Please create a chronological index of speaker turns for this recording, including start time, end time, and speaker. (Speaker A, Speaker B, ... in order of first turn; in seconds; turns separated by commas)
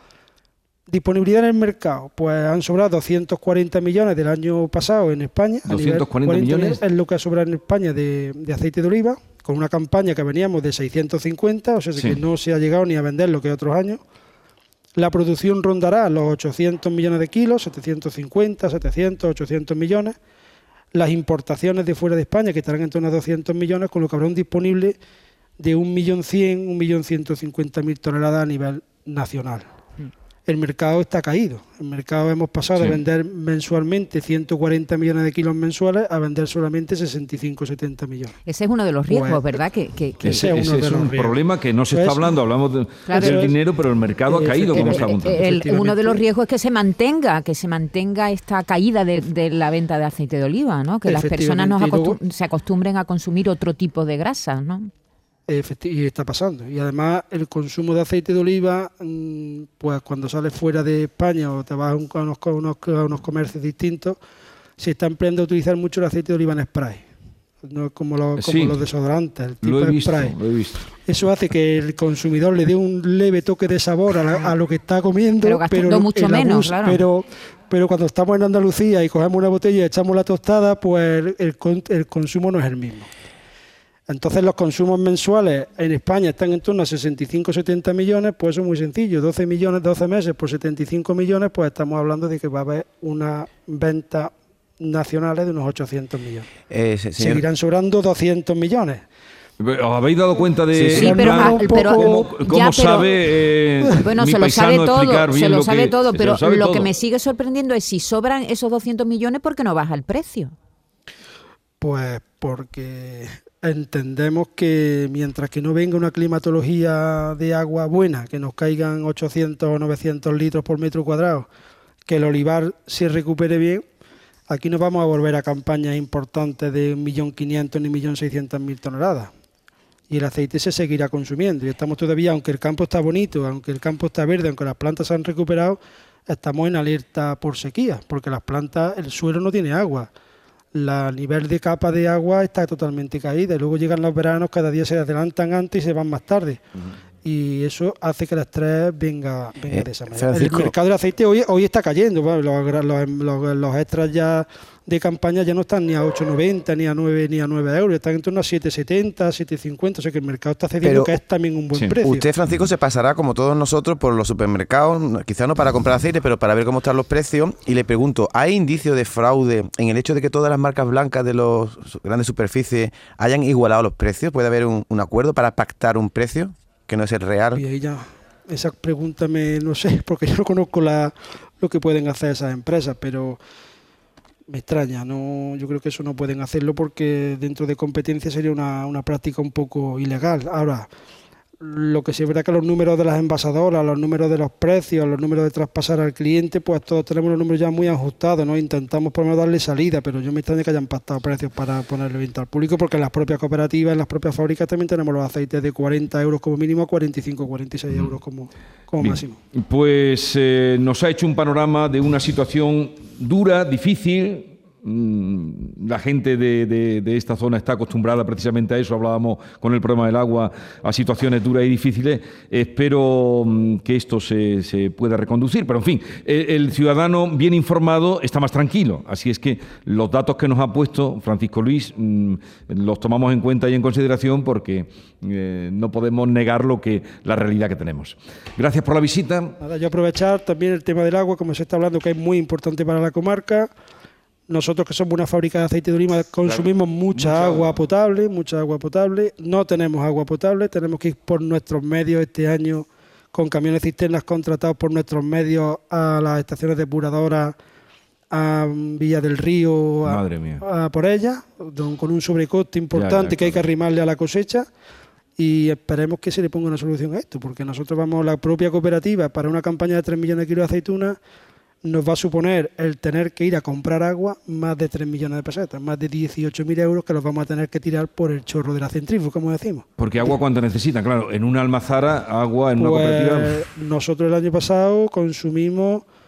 Speaker A: 0.9-14.0, Speaker B: 5.7-6.8, Speaker A: 14.9-20.1, Speaker A: 20.9-24.9, Speaker A: 25.6-29.6, Speaker A: 30.4-38.3, Speaker B: 32.8-33.0, Speaker C: 38.4-40.5, Speaker A: 39.1-39.5, Speaker B: 40.2-45.4, Speaker A: 40.2-42.3, Speaker C: 43.0-43.5, Speaker A: 43.1-43.5, Speaker A: 44.3-46.2, Speaker C: 44.7-54.9, Speaker A: 51.0-52.2, Speaker A: 55.5-64.2, Speaker A: 64.8-67.0, Speaker A: 67.6-70.3, Speaker B: 68.4-68.8, Speaker B: 69.6-70.8, Speaker A: 70.9-83.1, Speaker C: 75.4-77.0, Speaker A: 84.1-96.5, Speaker D: 96.7-97.4, Speaker A: 97.2-99.0, Speaker B: 99.6-106.9, Speaker D: 100.7-101.2, Speaker A: 100.9-102.3, Speaker C: 100.9-103.1, Speaker C: 104.0-110.5, Speaker A: 111.8-121.5, Speaker A: 122.0-123.8, Speaker A: 124.5-129.3, Speaker A: 130.1-140.1, Speaker A: 140.7-146.6, Speaker A: 147.2-162.3, Speaker D: 149.7-150.7, Speaker D: 160.8-161.2, Speaker D: 162.0-177.6, Speaker A: 177.5-183.4, Speaker A: 184.5-190.9, Speaker A: 191.6-209.3, Speaker B: 209.0-239.5, Speaker A: 239.6-243.7, Speaker A: 244.5-257.5, Speaker B: 246.5-247.8, Speaker A: 258.3-264.7, Speaker B: 260.0-260.6, Speaker B: 262.9-263.6, Speaker A: 265.4-271.2, Speaker A: 271.8-279.8, Speaker B: 280.0-283.6, Speaker A: 282.8-286.0